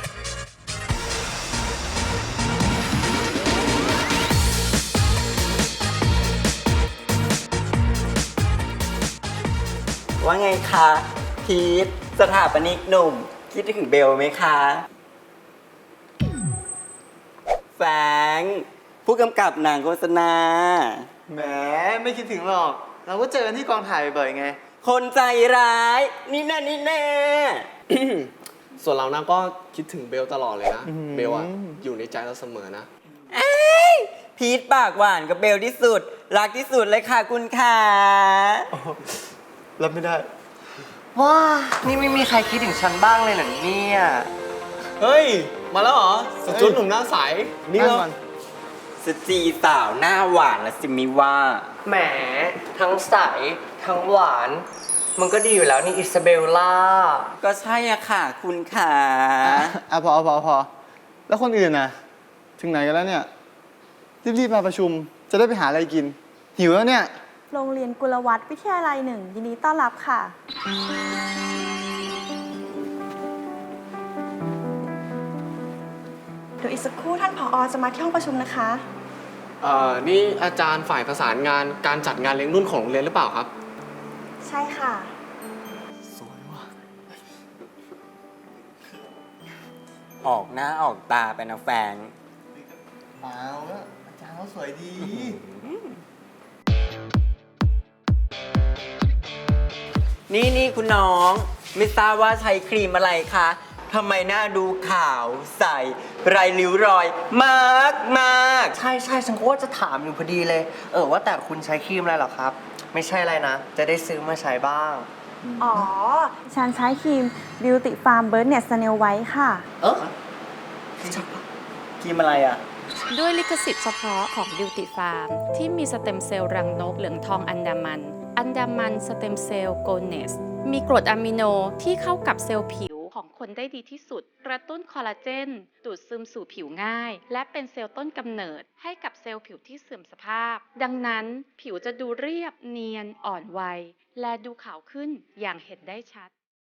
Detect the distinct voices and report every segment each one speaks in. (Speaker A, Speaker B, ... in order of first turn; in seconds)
Speaker A: 10.2-14.8, 17.8-21.1, 24.8-28.2, 33.3-38.7, 49.0-51.7, 57.4-59.7, 90.2-92.1, 100.3-108.7, 119.8-120.1, 122.0-122.6
Speaker B: 21.3-24.6, 30.9-31.8, 38.7-39.0, 39.8-40.3, 46.5-46.8, 47.7-48.2, 59.4-60.7, 61.3-61.9, 62.6-63.3, 64.2-67.1, 86.2-86.6, 93.2-95.4
Speaker C: 28.8-32.9, 45.0-48.1, 79.6-83.5
Speaker D: 41.1-44.3, 51.8-57.3, 108.7-115.1
Speaker E: 67.5-70.3, 76.6-78.8, 84.4-85.1, 115.6-119.6
Speaker F: 123.1-146.3